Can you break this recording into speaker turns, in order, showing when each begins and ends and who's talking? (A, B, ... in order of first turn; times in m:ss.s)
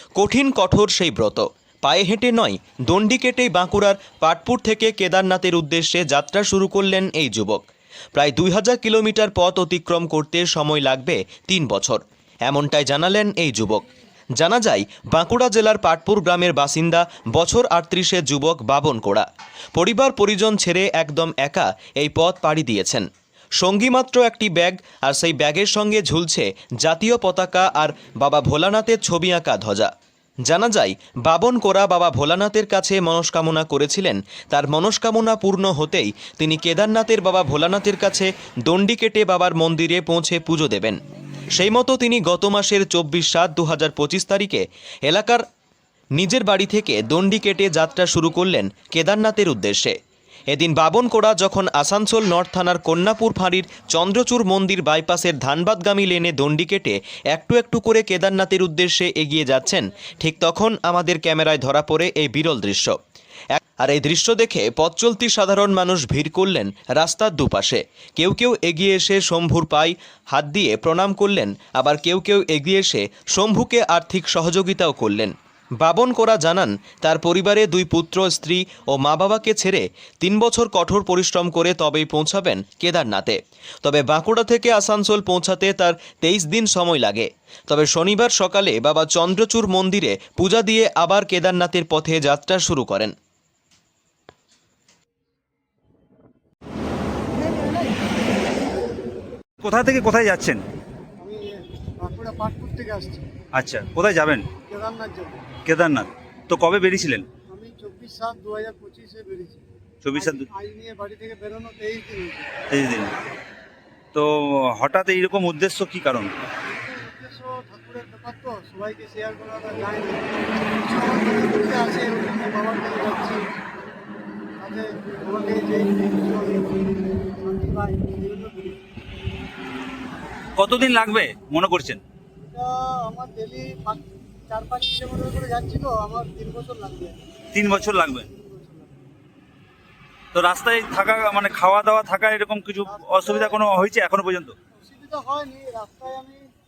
0:00.2-0:13.8 A
0:14.4-0:23.1 A
0:23.6-0:29.9 A
0:30.5-0:41.0 A
0:41.6-0:45.4 A
0:46.2-0:50.0 A
0:50.5-1:03.0 A
1:03.6-1:33.1 A
1:39.6-1:40.6 B
1:41.2-1:43.3 C
1:43.5-1:44.5 B
1:44.7-1:45.5 C
1:45.7-1:47.3 B
1:47.5-1:52.5 C
1:50.0-1:50.5 B
1:52.7-1:53.1 B
1:54.1-1:56.3 B
1:56.6-2:03.4 C
2:04.6-2:08.8 C
2:10.6-2:12.0 B
2:12.4-2:19.0 C
2:17.5-2:18.3 B
2:20.3-2:24.6 B
2:22.8-2:23.8 C
2:24.7-2:26.5 C